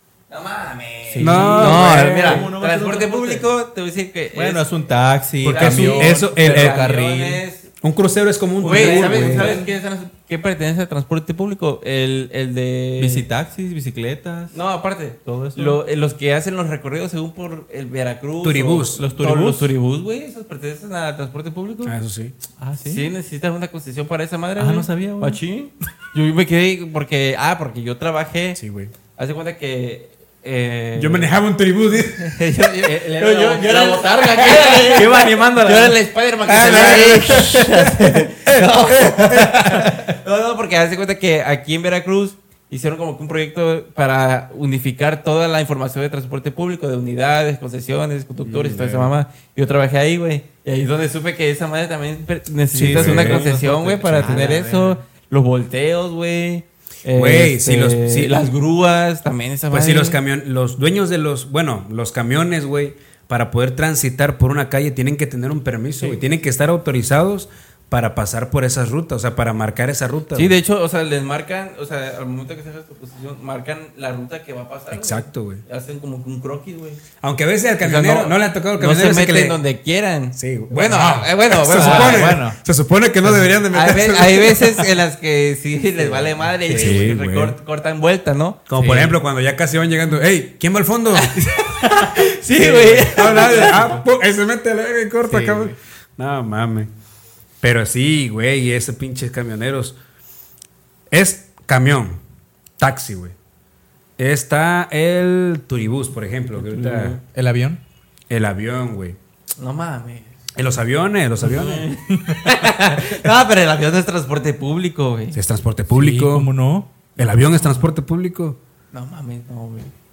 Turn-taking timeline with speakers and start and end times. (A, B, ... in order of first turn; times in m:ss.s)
0:00.3-0:04.6 A
0:01.1-0:03.5 B
0:01.2-0:02.5 C
0:04.3-0:07.4 B
0:05.4-0:06.8 C
0:05.4-0:07.6 A
0:07.8-0:09.5 C
0:08.6-0:13.2 A
0:08.6-0:09.7 B
0:13.0-0:14.5 B
0:14.5-0:22.0 A
0:15.2-0:15.8 B
0:18.4-0:19.0 C
0:19.0-0:19.7 B
0:21.8-0:22.4 C
0:22.6-0:23.1 B
0:22.8-0:28.6 A
0:24.6-0:25.4 B
0:28.6-0:28.9 C
0:29.2-0:31.3 A
0:31.0-0:32.4 C
0:32.1-1:00.2 A
0:32.8-0:34.9 B
0:34.5-0:40.0 C
0:48.5-0:49.1 C
0:52.7-0:53.4 C
0:52.8-0:55.0 B
0:54.1-0:54.5 C
0:57.1-0:58.5 C
0:59.7-1:10.5 C
1:10.3-1:17.0 A
1:14.9-1:15.6 C
1:17.2-1:19.6 C
1:17.8-1:22.3 A
1:20.4-1:24.8 C
1:21.7-1:22.6 B
1:23.2-1:23.6 B
1:23.7-1:28.8 A
1:26.0-1:27.1 B
1:26.7-1:27.6 C
1:28.7-1:31.4 C
1:28.8-1:29.1 B
1:31.1-1:33.9 A
1:32.6-1:34.0 B
1:32.6-1:36.9 C
1:35.3-1:35.7 B
1:37.6-1:40.0 C
1:41.1-1:42.2 C
1:42.8-1:43.4 C
1:44.2-1:47.2 C
1:46.6-1:47.2 A
1:47.3-1:47.8 B
1:48.3-1:49.2 C
1:49.6-1:50.4 A
1:50.6-1:51.8 C
1:51.4-1:55.4 A
1:52.1-1:52.5 B
1:55.3-1:56.5 C
1:55.9-1:57.1 B
1:57.2-1:58.6 C
1:58.9-1:59.9 A